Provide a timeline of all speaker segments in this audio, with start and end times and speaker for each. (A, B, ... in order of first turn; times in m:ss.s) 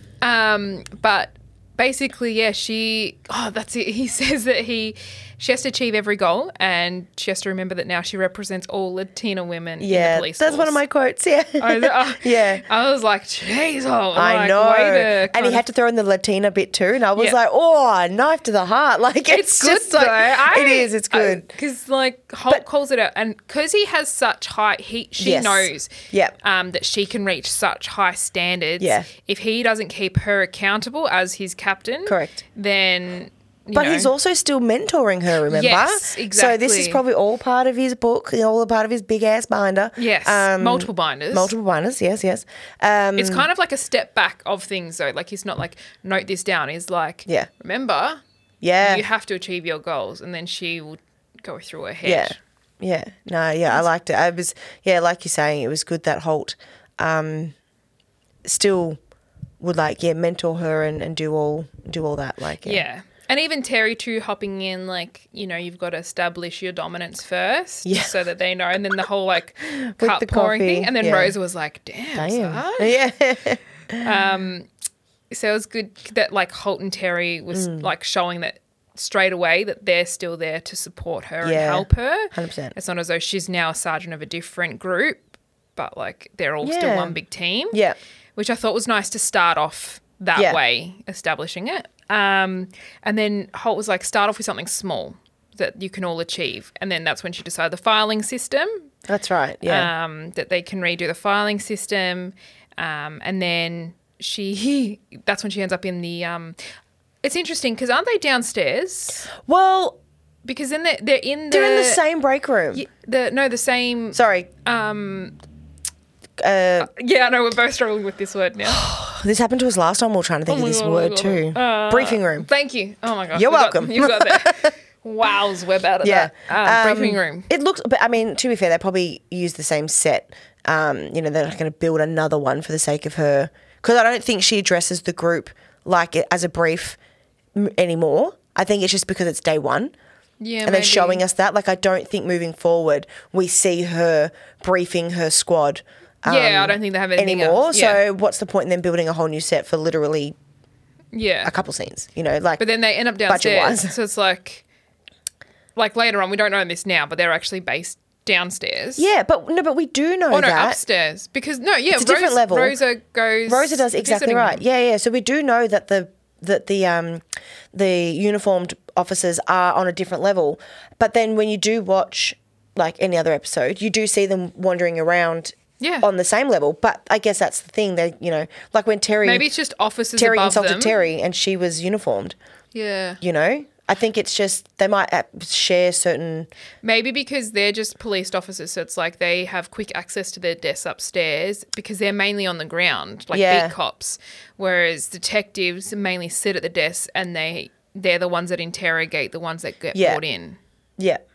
0:00.2-0:10.8 A
0:09.8-0:12.6 B
0:11.6-0:15.6 A
0:14.1-0:21.5 B
0:19.3-0:34.1 A
0:25.2-0:26.4 B
0:28.8-0:29.1 B
0:32.0-0:32.4 B
0:33.7-0:43.5 B
0:35.5-0:37.0 A
0:40.0-0:41.5 A
0:43.2-0:48.2 A
0:48.6-0:49.0 B
0:48.8-0:52.4 A
0:52.0-0:57.5 B
0:58.4-0:59.0 B
0:59.6-1:02.8 B
1:02.6-1:13.0 A
1:07.8-1:08.1 B
1:09.8-1:11.4 B
1:12.1-1:14.1 B
1:14.0-1:14.7 A
1:15.3-1:27.8 A
1:17.5-1:17.9 B
1:21.4-1:22.8 B
1:26.6-1:27.2 B
1:27.7-1:28.0 B
1:28.4-1:38.9 A
1:30.4-1:30.6 B
1:39.1-1:39.9 B
1:39.6-1:46.6 A
1:47.2-1:49.3 A
1:49.4-1:50.0 B
1:50.4-1:52.0 A
1:51.5-1:52.8 B
1:52.7-1:55.4 A
1:54.1-1:54.5 B
1:56.4-1:56.9 B
1:56.8-1:58.8 A
1:58.6-2:02.5 B
2:00.5-2:07.5 A
2:03.3-2:04.7 B
2:06.0-2:17.0 B
2:17.5-2:19.9 B
2:20.4-2:21.2 A
2:20.6-2:30.4 B
2:26.2-2:28.0 A
2:31.1-2:31.5 A
2:31.4-2:32.6 B
2:32.6-2:34.6 A
2:33.3-2:33.9 B
2:35.7-2:39.0 A
2:39.0-2:40.8 B
2:40.3-2:44.6 A
2:41.9-2:42.8 B
2:43.4-2:59.5 B
2:55.8-2:56.1 A
2:59.2-3:01.0 A
3:00.2-3:02.4 B
3:02.7-3:03.2 A
3:03.2-3:06.5 B
3:06.8-3:20.6 A
3:13.3-3:13.7 B
3:19.9-3:20.2 B